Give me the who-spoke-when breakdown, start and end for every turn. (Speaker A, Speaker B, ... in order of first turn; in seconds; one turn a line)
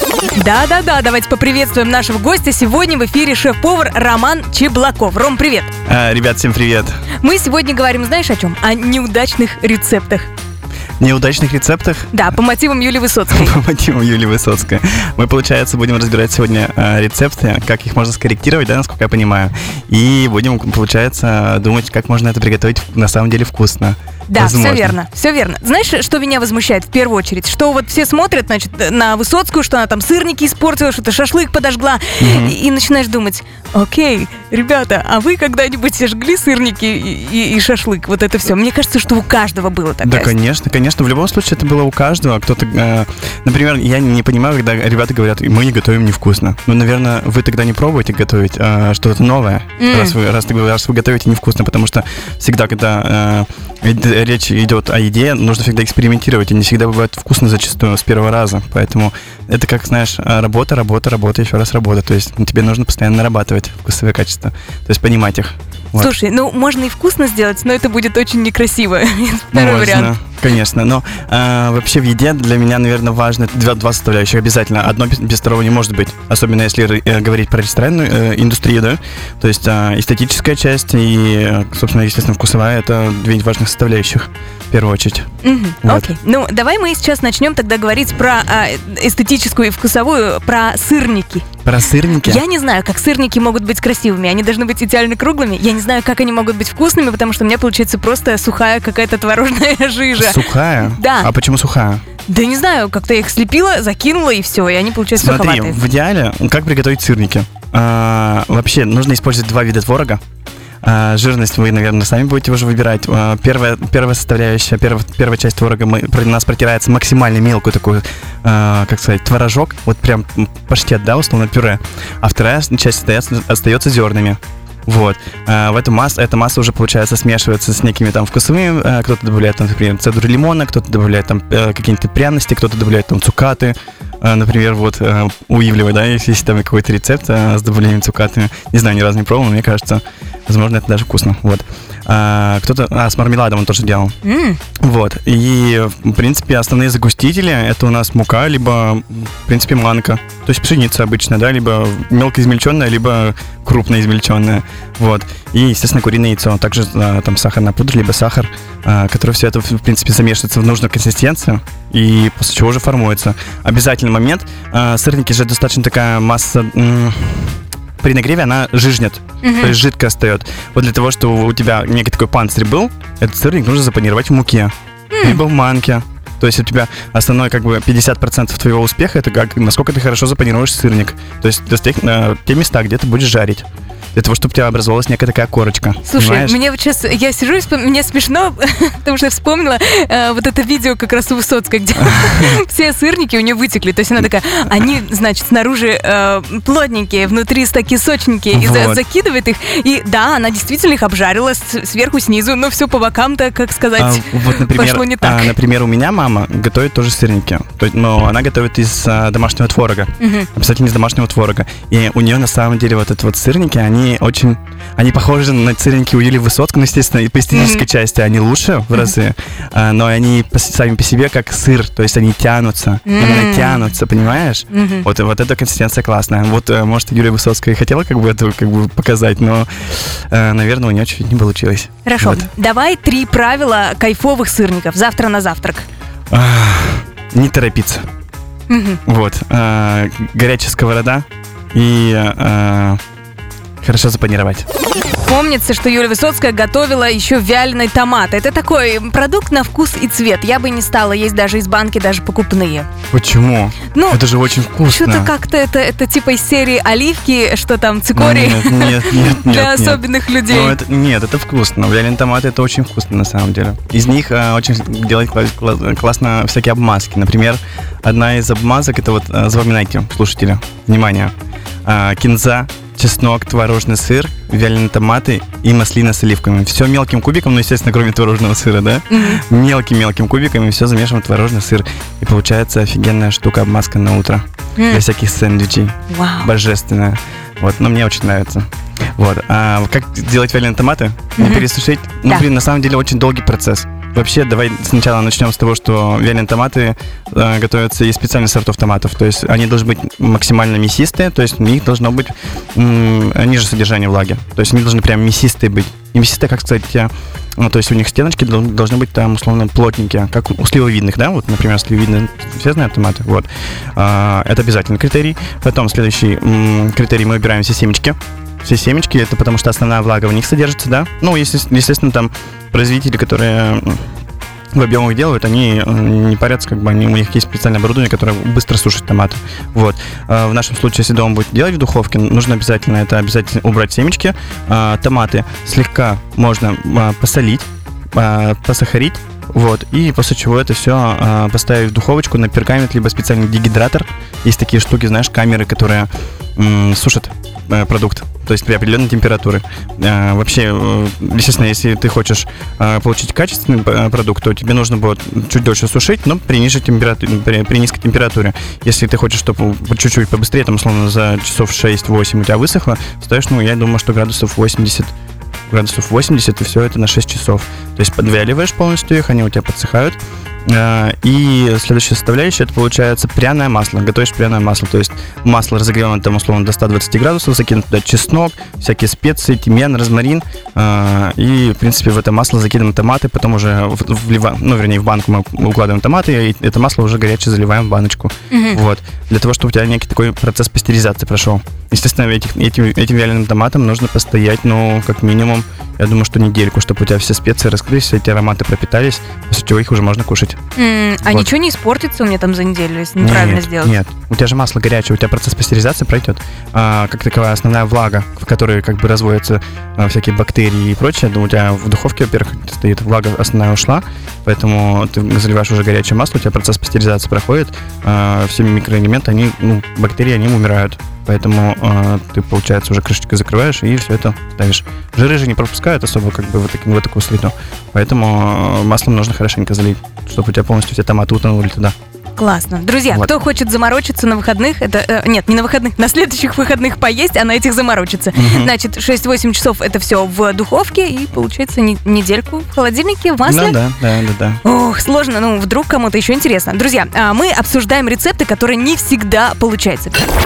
Speaker A: 0.3-5.7
Speaker B: 5.8-7.0
Speaker A: 7.2-10.3
Speaker B: 11.0-12.2
Speaker A: 12.1-13.6
Speaker B: 13.3-25.0
Speaker A: 24.3-40.3
Speaker B: 32.2-32.5
Speaker B: 40.0-66.1
Speaker A: 49.8-50.2
Speaker A: 66.0-70.1
Speaker B: 69.5-85.3
Speaker A: 85.4-91.5
Speaker B: 85.8-86.1
Speaker B: 91.6-92.4
Speaker A: 92.2-101.3
Speaker B: 100.2-102.0
Speaker A: 102.2-105.8
Speaker B: 105.1-110.2
Speaker B: 110.8-144.2
Speaker A: 144.2-144.6
Speaker B: 144.8-186.6
Speaker A: 169.4-169.8
Speaker A: 175.1-175.4
Speaker A: 186.1-205.6
Speaker B: 192.0-192.6
Speaker B: 198.5-199.0
Speaker B: 204.0-232.5
Speaker A: 210.2-210.5
Speaker A: 217.5-217.8
Speaker A: 223.1-223.9
Speaker A: 224.7-225.1
Speaker A: 232.0-235.8
Speaker B: 236.3-238.0
Speaker A: 238.7-239.0
Speaker B: 239.1-243.0
Speaker B: 243.8-244.7
Speaker A: 245.2-252.9
Speaker B: 253.1-255.3
Speaker A: 253.9-254.2
Speaker A: 254.8-260.8
Speaker B: 258.1-271.3
Speaker B: 271.8-324.1
Speaker A: 279.1-279.4
Speaker A: 284.8-285.0
Speaker A: 286.1-286.5
Speaker A: 291.4-291.7
Speaker B: 324.7-365.1
Speaker B: 365.7-400.6
Speaker A: 388.5-388.8
Speaker A: 400.8-403.9
Speaker B: 403.2-431.9
Speaker A: 432.4-443.8
Speaker B: 438.3-438.7
Speaker B: 443.4-444.6
Speaker A: 444.6-450.3